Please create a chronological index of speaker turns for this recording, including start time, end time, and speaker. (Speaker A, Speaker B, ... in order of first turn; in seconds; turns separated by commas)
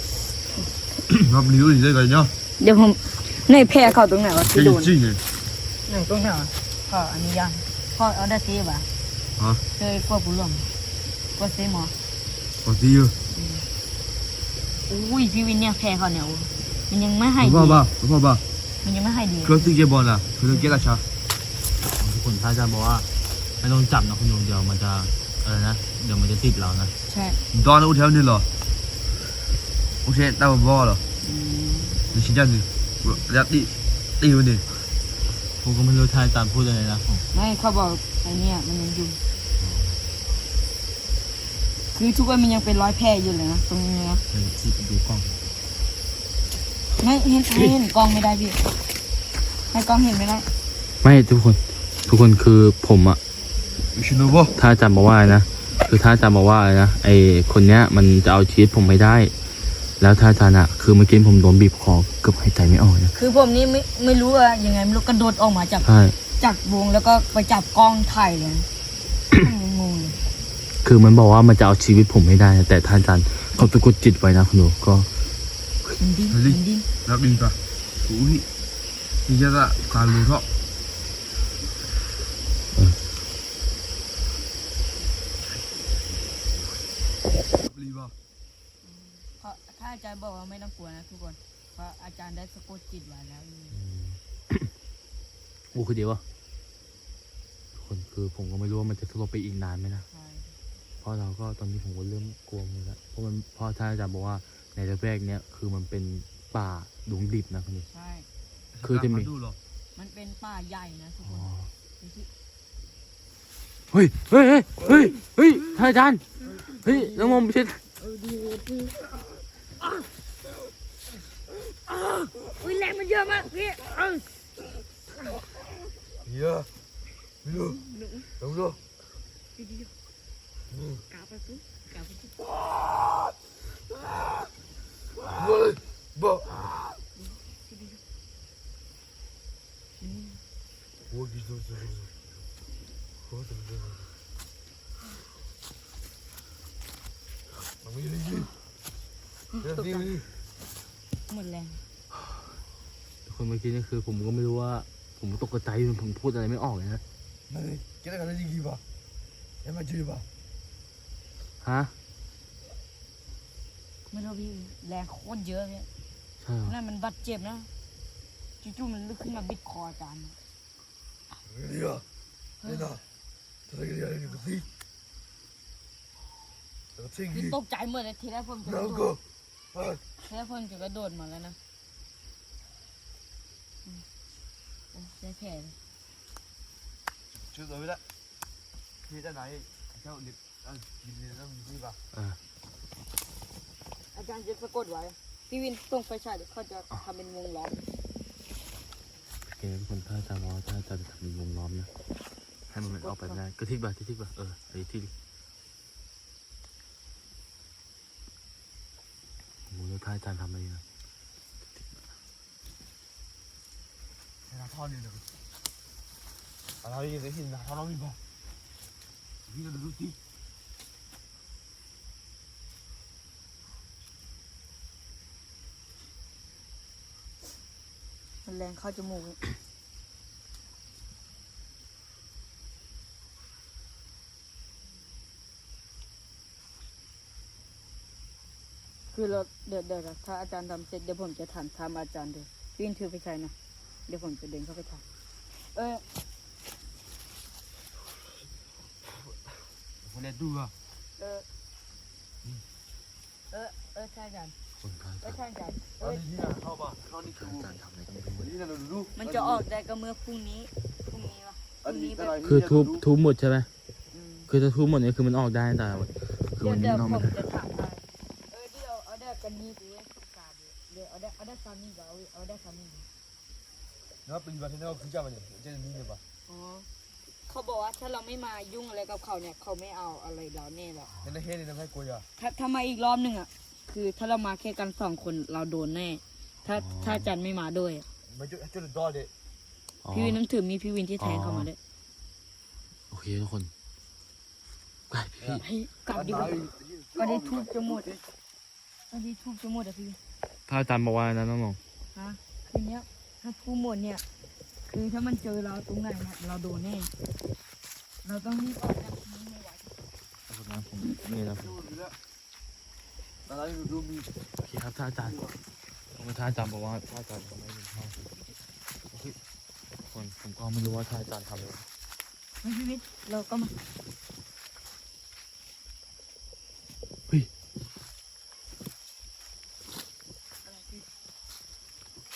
Speaker A: 1.2-2.3, Speaker B: 2.6-4.9, Speaker A: 4.5-5.2, Speaker B: 5.9-8.9, Speaker B: 9.8-10.7, Speaker B: 11.3-11.9, Speaker A: 12.6-13.1, Speaker B: 13.3-13.6, Speaker B: 14.9-17.9, Speaker A: 17.4-18.4, Speaker B: 18.8-19.7, Speaker A: 19.4-21.0, Speaker C: 21.9-23.1, Speaker C: 23.6-26.9, Speaker B: 27.1-27.4, Speaker A: 27.5-28.4, Speaker A: 30.0-31.0, Speaker B: 31.2-32.2, Speaker A: 32.1-34.6, Speaker C: 35.6-37.2, Speaker B: 37.3-39.2, Speaker C: 39.6-40.0, Speaker B: 41.9-44.2, Speaker C: 44.3-45.4, Speaker B: 47.0-48.6, Speaker B: 49.7-50.5, Speaker C: 51.0-53.2, Speaker A: 53.9-54.5, Speaker C: 54.5-59.3, Speaker C: 60.0-63.1, Speaker B: 63.1-68.7, Speaker C: 65.8-66.2, Speaker B: 69.3-70.2, Speaker C: 70.8-75.1, Speaker B: 76.0-76.8, Speaker A: 76.3-78.4, Speaker A: 79.3-80.4, Speaker A: 87.6-88.1, Speaker B: 88.8-93.8, Speaker C: 93.7-94.7, Speaker C: 95.7-96.2, Speaker C: 97.7-100.0, Speaker B: 100.1-100.5, Speaker C: 101.0-107.9, Speaker B: 107.9-108.3, Speaker A: 108.7-109.6, Speaker C: 108.8-109.3, Speaker B: 109.9-112.3, Speaker C: 111.2-111.7, Speaker C: 113.9-117.8, Speaker B: 116.9-117.4, Speaker B: 118.0-119.0, Speaker B: 122.1-124.3, Speaker A: 126.2-126.7, Speaker A: 127.4-127.8, Speaker B: 127.5-128.3, Speaker A: 128.4-128.8, Speaker B: 129.6-129.9, Speaker A: 130.7-131.0, Speaker B: 131.1-132.3, Speaker A: 135.3-136.7, Speaker B: 137.2-138.0, Speaker B: 140.0-140.4, Speaker A: 141.1-142.1, Speaker A: 143.3-144.1, Speaker A: 147.8-148.5, Speaker B: 149.6-150.1, Speaker A: 149.6-150.3, Speaker B: 151.3-151.8, Speaker C: 153.2-157.0, Speaker A: 157.5-158.8, Speaker A: 159.6-160.2, Speaker C: 161.6-161.9, Speaker B: 164.1-165.9, Speaker C: 166.4-166.7, Speaker B: 166.6-167.7, Speaker B: 168.6-170.4, Speaker A: 171.4-172.0, Speaker B: 172.6-172.9, Speaker A: 172.6-173.0, Speaker A: 173.7-174.7, Speaker A: 177.0-177.6, Speaker B: 177.3-179.1, Speaker A: 178.6-179.2, Speaker A: 179.7-180.0, Speaker B: 180.2-181.6, Speaker B: 184.9-185.8, Speaker A: 187.3-188.0, Speaker A: 189.1-192.0, Speaker B: 194.1-197.8, Speaker C: 199.4-201.9, Speaker C: 202.7-205.1, Speaker B: 202.8-203.4, Speaker C: 209.7-210.8, Speaker A: 214.5-215.3, Speaker A: 216.8-218.2, Speaker A: 219.5-220.2, Speaker B: 228.4-229.4, Speaker B: 239.1-243.5, Speaker B: 244.1-245.0, Speaker B: 245.7-246.0, Speaker A: 250.0-250.7, Speaker B: 251.2-251.4, Speaker B: 253.5-254.6, Speaker C: 254.8-255.3, Speaker B: 255.2-256.2, Speaker A: 256.0-257.7, Speaker C: 257.2-258.5, Speaker A: 258.4-259.6, Speaker B: 259.1-262.4, Speaker A: 261.8-263.1, Speaker C: 262.4-263.7, Speaker B: 264.1-264.5, Speaker C: 264.5-267.4, Speaker B: 266.6-273.1, Speaker A: 274.2-276.2, Speaker B: 276.5-276.9, Speaker B: 277.5-281.1, Speaker A: 281.2-282.2, Speaker B: 282.4-288.1, Speaker C: 286.7-287.3, Speaker A: 288.3-289.3, Speaker C: 290.0-290.4, Speaker B: 290.1-291.8, Speaker C: 291.2-291.7, Speaker C: 293.1-293.7, Speaker C: 295.1-295.6, Speaker A: 295.4-298.2, Speaker B: 295.6-298.1, Speaker B: 299.1-300.2, Speaker C: 300.7-301.8, Speaker B: 302.1-304.2, Speaker B: 304.9-307.1, Speaker B: 308.2-309.9, Speaker C: 310.5-311.8, Speaker A: 311.8-312.1, Speaker A: 313.5-314.3, Speaker C: 314.6-315.5, Speaker C: 316.1-318.3, Speaker C: 319.1-319.4, Speaker C: 320.1-321.9, Speaker B: 322.6-323.8